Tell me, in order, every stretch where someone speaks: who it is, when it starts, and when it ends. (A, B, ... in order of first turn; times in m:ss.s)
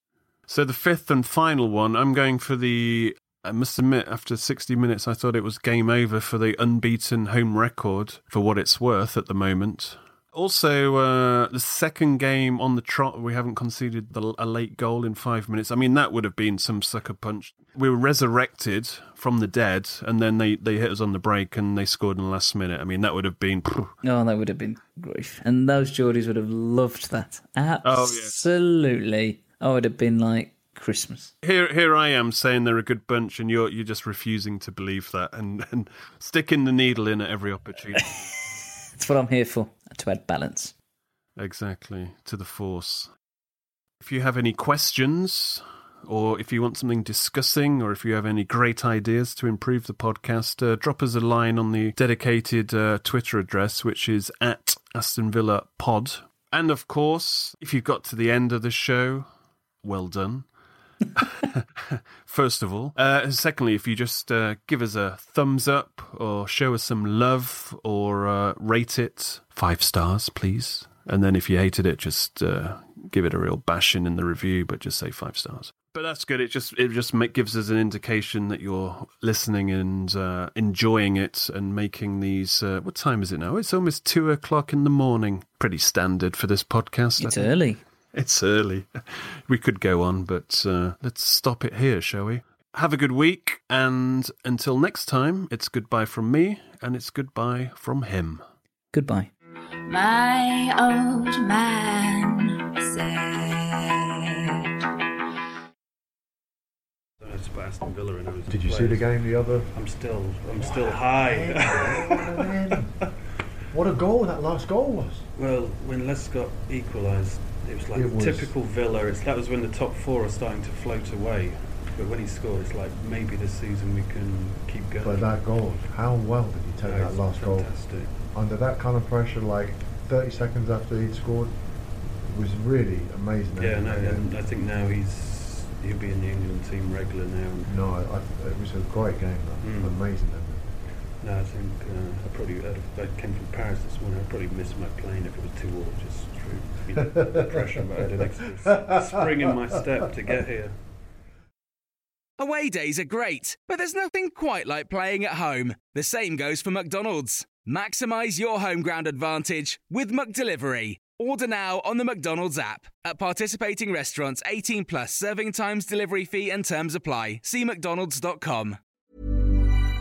0:00.5-0:23.9 A
0:24.0-0:31.3 B
0:27.8-0:28.3 A
0:31.4-0:38.1 A
0:39.0-0:40.7 B
0:41.4-0:43.1 A
0:44.0-0:59.3 A
0:59.8-1:00.5 A
1:01.2-1:27.6 A
1:27.2-1:27.8 B
1:28.1-1:38.4 A
1:38.9-1:39.3 B
1:39.9-1:44.3 C
1:47.2-1:49.1 A
1:48.5-1:49.7 D
1:49.7-1:52.8 A
1:50.6-1:53.0 D
1:53.7-1:55.2 D
1:55.4-2:05.3 A
1:57.9-1:58.5 D
2:05.0-2:14.3 D
2:06.8-2:08.1 A
2:13.6-2:17.7 A
2:17.7-2:20.7 D
2:19.6-2:20.0 A
2:21.2-2:30.8 A
2:27.0-2:28.0 D
2:28.6-2:29.5 D
2:32.4-2:48.8 E